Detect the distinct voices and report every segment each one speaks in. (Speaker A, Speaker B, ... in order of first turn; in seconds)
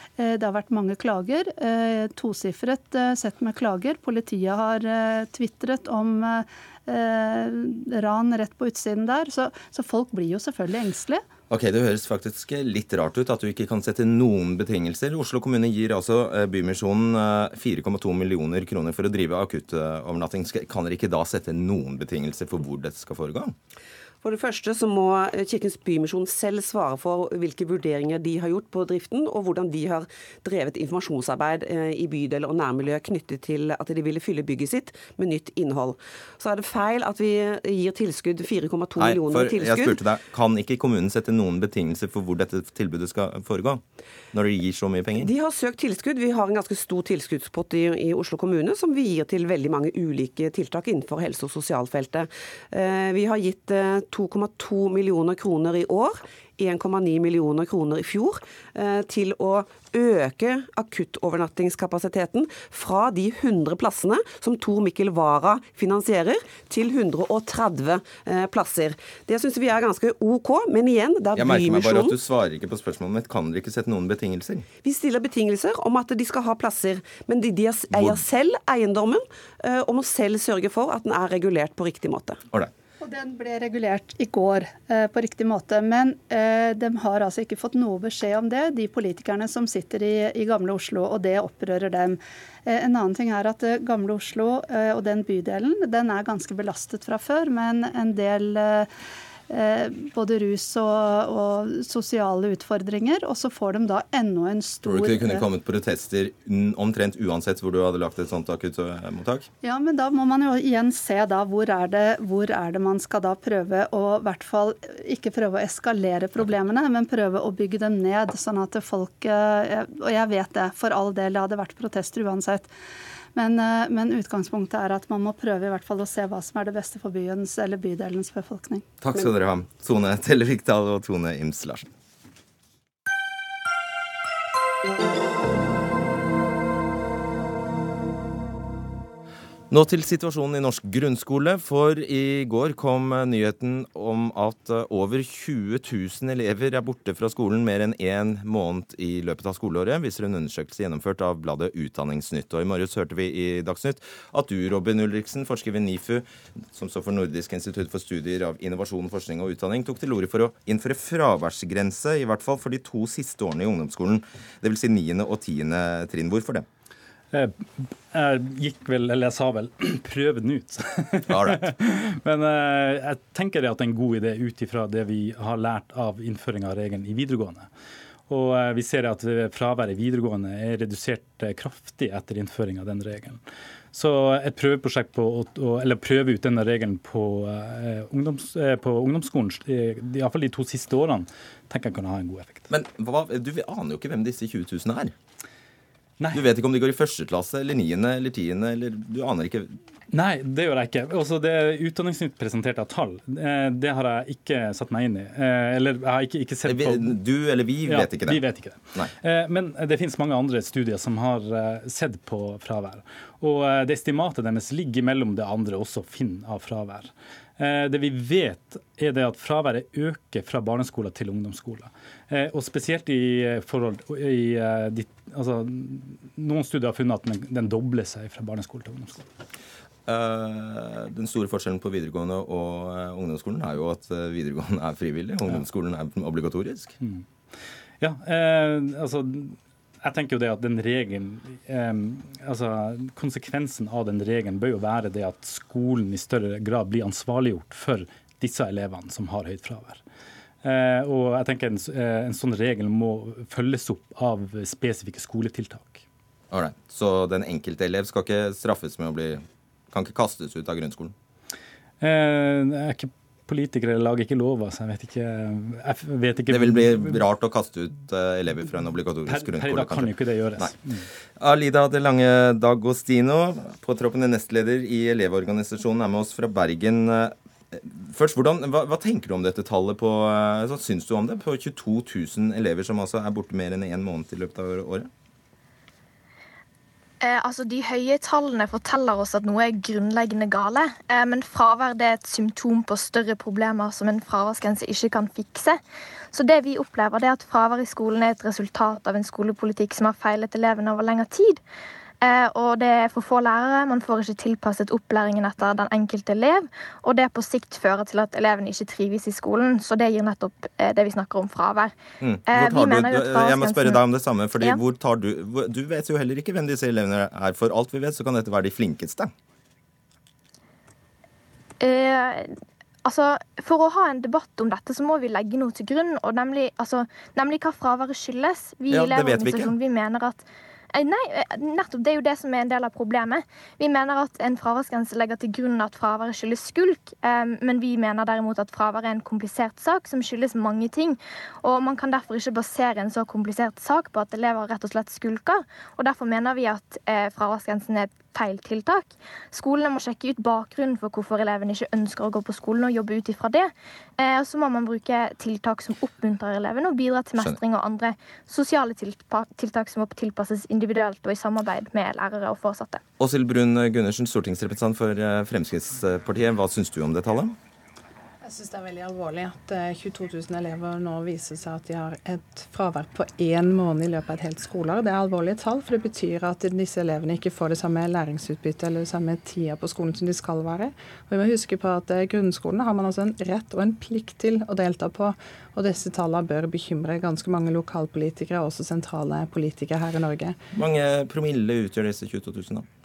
Speaker A: 0.2-11.3, 83.0-98.9, 99.5-105.5, 109.6-122.7, 123.3-128.8
Speaker B: 11.5-23.5, 39.0-43.8, 44.3-45.3, 71.4-74.7, 77.9-78.2, 104.8-109.5, 129.0-131.9, 139.7-166.7, 171.3-171.7, 192.7-195.1, 196.3-199.8, 206.7-208.4, 230.1-236.9, 256.5-261.1, 266.5-270.8, 271.4-285.1, 312.2-319.3, 328.9-329.7, 363.2-367.6, 390.7-392.9
Speaker C: 24.2-40.0, 45.2-72.2, 74.8-82.4
Speaker D: 167.3-177.7, 178.3-183.4, 183.9-192.7, 196.2-196.4, 200.1-207.2, 207.8-229.2, 237.0-237.3, 238.0-250.0, 250.6-256.0, 262.0-267.3, 269.3-271.1
Speaker E: 287.2-295.8, 296.3-301.6, 302.2-311.9, 312.5-314.0, 321.8-363.0
Speaker F: 368.4-390.6